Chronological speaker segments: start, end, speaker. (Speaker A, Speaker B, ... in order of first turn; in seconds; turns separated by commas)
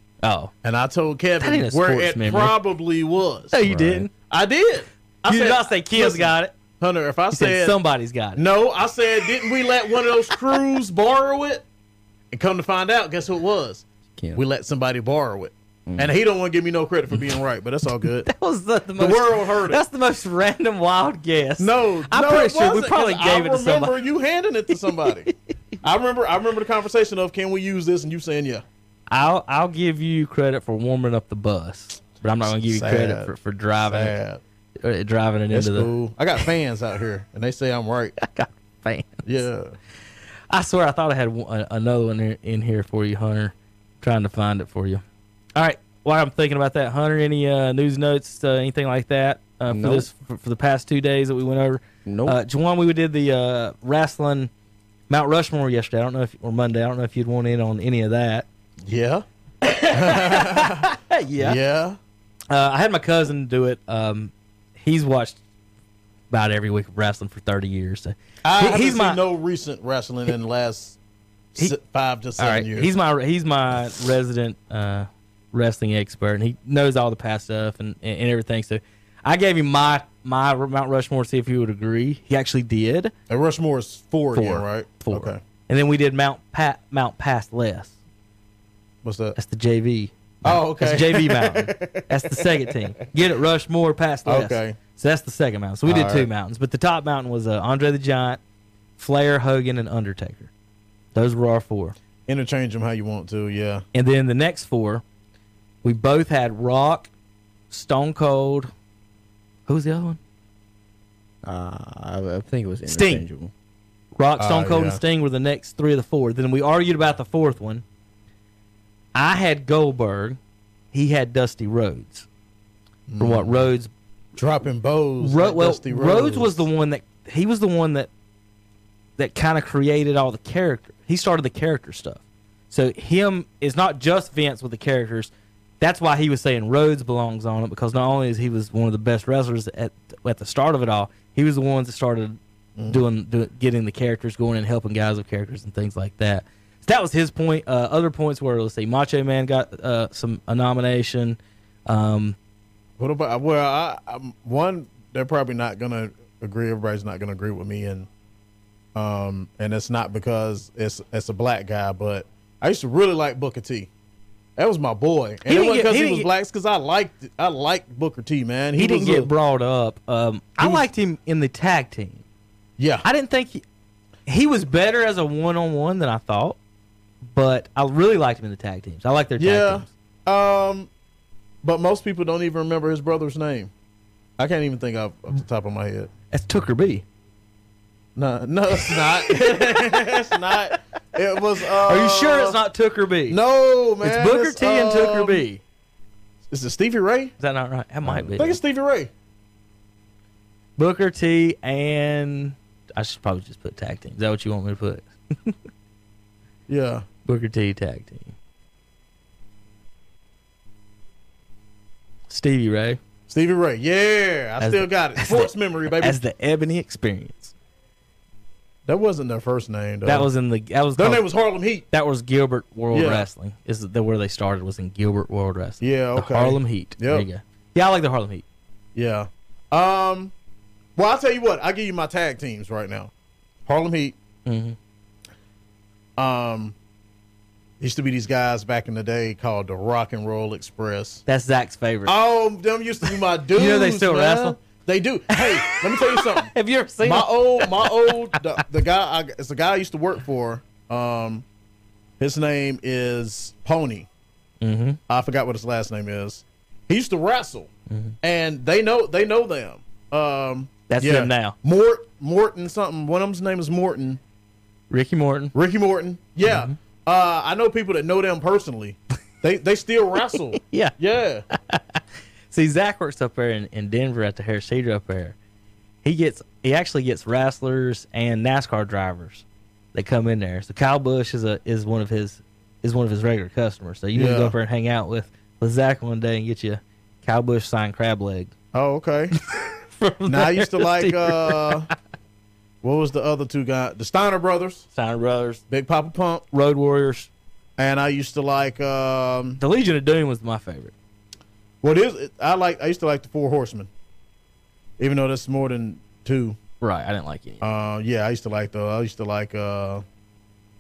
Speaker A: 0.2-0.5, Speaker B: 0.6-3.6, Speaker A: 1.4-2.5, Speaker A: 3.5-4.1, Speaker C: 3.6-4.1, Speaker B: 4.3-7.8, Speaker A: 5.3-6.5, Speaker A: 7.3-8.4, Speaker B: 8.3-11.6, Speaker B: 12.3-18.3, Speaker C: 14.1-14.4, Speaker C: 15.8-16.1, Speaker A: 18.2-23.9, Speaker B: 19.0-19.8, Speaker B: 21.6-28.6, Speaker A: 24.9-25.3, Speaker A: 29.1-34.1, Speaker B: 32.5-34.4, Speaker A: 34.8-35.9, Speaker B: 35.5-38.1, Speaker A: 38.2-39.2, Speaker B: 39.2-39.7, Speaker A: 40.5-45.0, Speaker A: 45.5-54.5, Speaker C: 49.7-50.1, Speaker C: 52.0-52.4, Speaker A: 55.1-58.5, Speaker B: 58.8-59.2, Speaker A: 59.6-61.6, Speaker B: 59.9-62.0, Speaker A: 62.5-65.4, Speaker A: 66.3-69.2, Speaker B: 68.4-71.0, Speaker B: 71.5-72.9, Speaker A: 72.4-83.1, Speaker B: 83.3-85.4, Speaker A: 84.3-88.0, Speaker B: 89.0-89.3, Speaker A: 89.3-98.4, Speaker B: 90.4-92.8, Speaker B: 94.2-94.8, Speaker B: 95.8-96.3, Speaker A: 99.0-100.5, Speaker A: 101.1-102.0, Speaker B: 102.3-103.8, Speaker A: 103.9-105.0, Speaker A: 105.8-107.1, Speaker A: 107.7-108.7, Speaker A: 109.7-110.2, Speaker C: 111.4-113.5, Speaker A: 112.9-113.2, Speaker A: 114.2-117.8, Speaker B: 114.4-115.0, Speaker A: 119.1-120.4, Speaker A: 120.9-122.3, Speaker B: 123.1-123.7, Speaker A: 123.2-123.9, Speaker B: 124.3-126.7, Speaker A: 125.2-128.1, Speaker A: 129.2-152.4, Speaker B: 142.8-143.0, Speaker B: 153.0-158.1, Speaker B: 158.9-163.9, Speaker B: 164.6-169.3, Speaker A: 165.5-166.3, Speaker A: 168.8-172.2, Speaker B: 170.6-170.8, Speaker B: 172.8-173.0, Speaker A: 173.0-173.6, Speaker A: 174.3-176.6, Speaker A: 177.2-179.9, Speaker B: 179.4-180.9, Speaker B: 181.6-183.7, Speaker B: 184.4-186.1, Speaker A: 186.3-187.0, Speaker B: 188.2-192.6, Speaker A: 188.8-190.2, Speaker A: 191.8-193.4, Speaker B: 193.3-195.4, Speaker A: 194.0-195.6, Speaker B: 196.5-197.3, Speaker A: 197.4-198.6, Speaker B: 198.0-199.1, Speaker A: 200.8-205.6, Speaker B: 206.7-207.0, Speaker A: 207.2-208.3, Speaker A: 212.3-213.0, Speaker B: 213.3-216.2, Speaker A: 214.6-217.5, Speaker B: 218.8-220.3, Speaker A: 220.1-221.2, Speaker B: 221.0-221.8, Speaker A: 221.9-228.4, Speaker B: 222.9-223.3, Speaker B: 225.8-227.3, Speaker B: 228.9-230.3, Speaker B: 230.9-233.1, Speaker B: 233.7-234.2, Speaker A: 234.4-234.8, Speaker B: 236.2-236.7, Speaker B: 237.8-241.2, Speaker A: 241.3-242.2, Speaker B: 242.1-251.4, Speaker A: 243.0-244.6, Speaker A: 245.3-248.4, Speaker B: 252.2-254.1, Speaker A: 254.6-255.0, Speaker B: 255.1-257.7, Speaker B: 258.2-264.2, Speaker A: 260.9-261.5, Speaker A: 264.9-265.5, Speaker B: 265.5-271.4, Speaker A: 266.4-266.7, Speaker A: 270.3-270.9, Speaker A: 271.5-275.4, Speaker A: 276.0-288.5, Speaker B: 284.1-284.5, Speaker B: 288.7-289.4, Speaker A: 289.4-291.8, Speaker B: 290.3-291.9, Speaker B: 292.8-294.9, Speaker A: 294.9-295.6, Speaker B: 295.7-296.4, Speaker A: 296.5-297.3, Speaker B: 297.8-299.6, Speaker A: 299.6-300.9, Speaker B: 301.8-303.9, Speaker B: 305.0-306.6, Speaker A: 306.8-307.6, Speaker B: 307.6-310.0